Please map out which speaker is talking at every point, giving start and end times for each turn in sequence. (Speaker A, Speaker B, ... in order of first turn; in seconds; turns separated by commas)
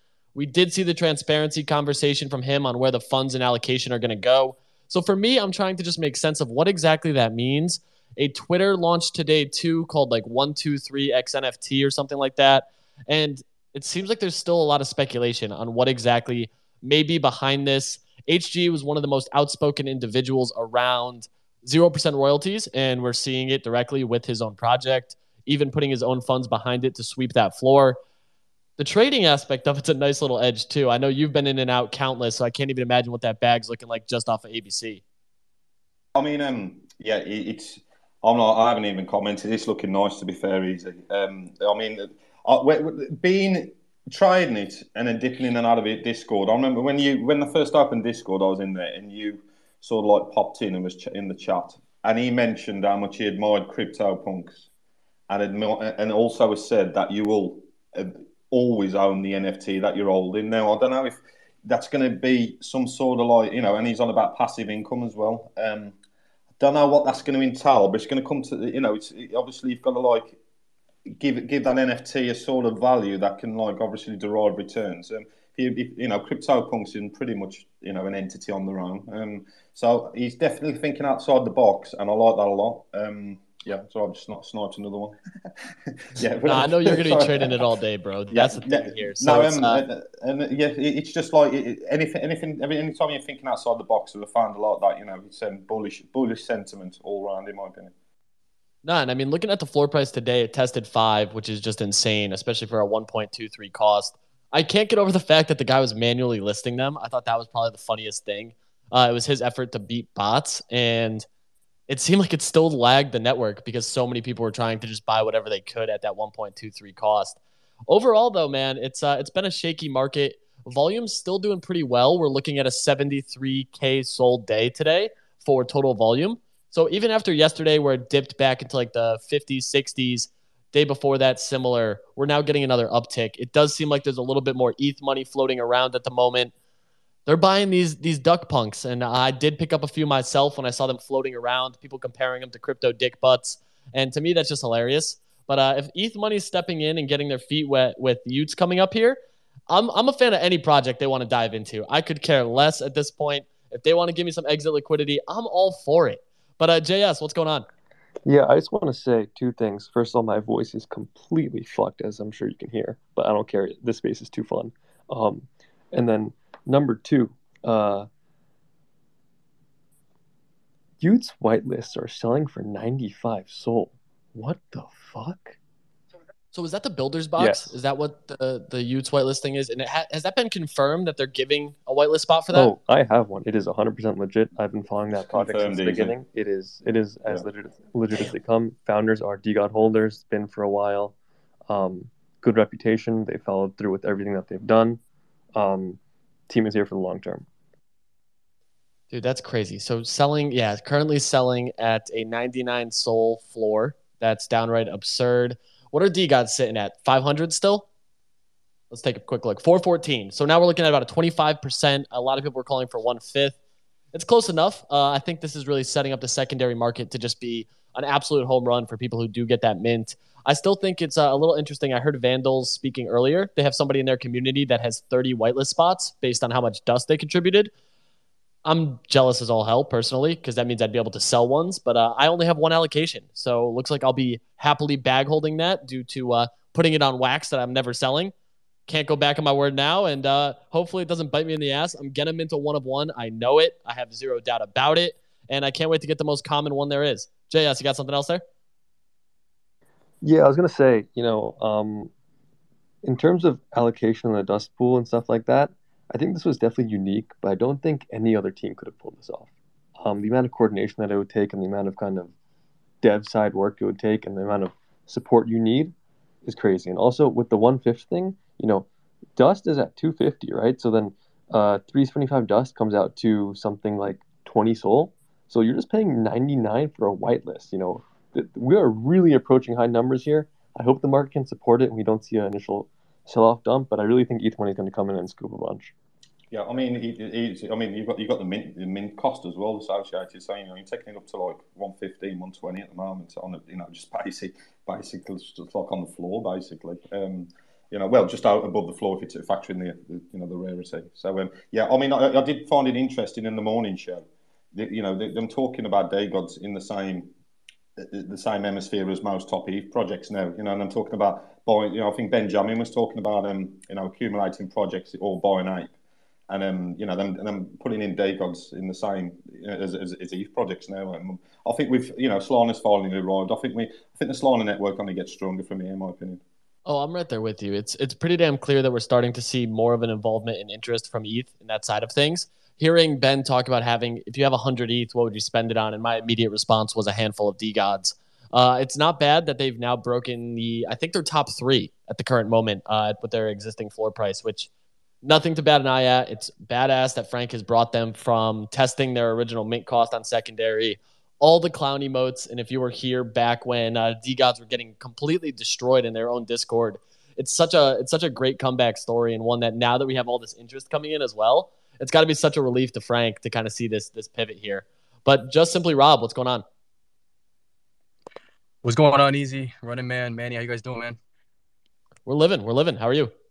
Speaker A: 0.3-28.0, Speaker A: 28.8-35.0, Speaker B: 36.1-54.7, Speaker B: 55.3-66.0, Speaker B: 66.6-70.4, Speaker B: 71.2-85.2, Speaker B: 86.0-87.6, Speaker A: 86.4-89.8, Speaker B: 88.3-97.9, Speaker A: 98.8-111.3, Speaker A: 111.9-136.5, Speaker A: 137.3-157.7, Speaker C: 158.3-168.1, Speaker C: 171.0-175.6, Speaker A: 176.5-182.7, Speaker C: 177.4-177.8, Speaker C: 182.5-191.1, Speaker B: 185.1-186.2, Speaker C: 191.7-195.0, Speaker C: 195.6-197.4, Speaker A: 199.1-207.9, Speaker A: 208.9-213.6, Speaker A: 214.1-227.7, Speaker A: 228.7-238.3, Speaker A: 238.9-248.4, Speaker C: 250.2-252.1, Speaker C: 253.0-262.3, Speaker C: 263.0-265.9, Speaker C: 266.4-285.9, Speaker B: 286.5-307.3, Speaker B: 308.0-315.9, Speaker B: 316.5-326.4, Speaker A: 326.9-344.7, Speaker A: 345.2-366.6, Speaker D: 368.8-371.2, Speaker A: 372.3-373.3